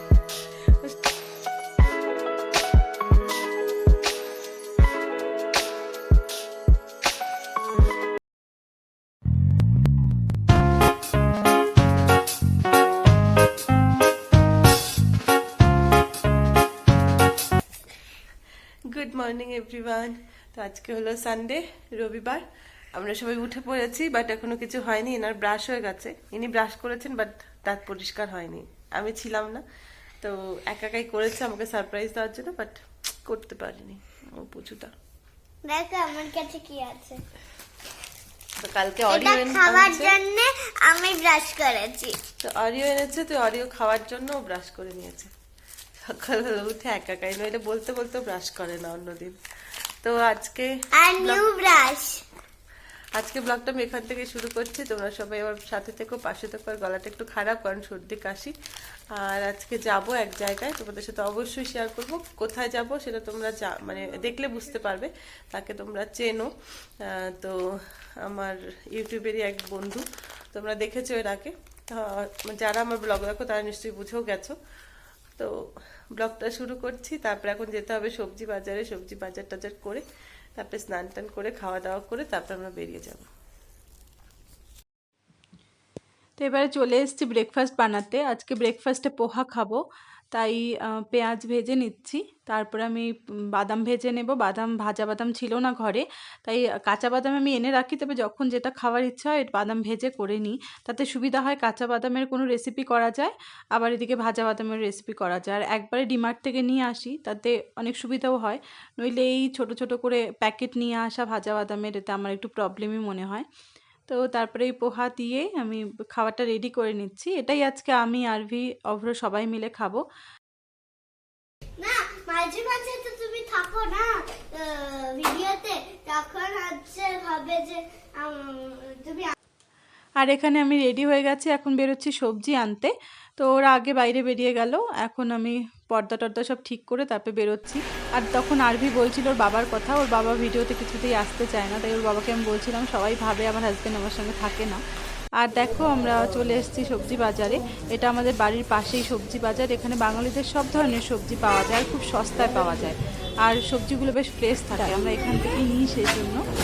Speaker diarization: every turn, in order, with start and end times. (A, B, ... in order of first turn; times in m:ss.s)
0:18.9-0:22.4 A
0:21.9-0:22.4 B
0:23.0-0:29.6 A
0:30.2-0:34.9 A
0:35.6-0:37.2 C
0:38.6-0:40.2 A
0:39.1-0:42.2 C
0:42.4-0:45.3 A
0:46.0-0:49.4 A
0:50.0-0:50.6 A
0:51.0-0:52.2 C
0:51.2-0:51.6 A
0:53.2-0:58.5 A
0:59.1-1:06.5 A
1:07.0-1:14.6 A
1:16.2-1:20.0 A
1:20.6-1:23.3 A
1:26.4-1:29.8 B
1:30.3-1:53.4 B
1:54.1-2:00.0 B
2:01.8-2:09.3 C
2:10.2-2:24.8 B
2:25.4-2:36.4 B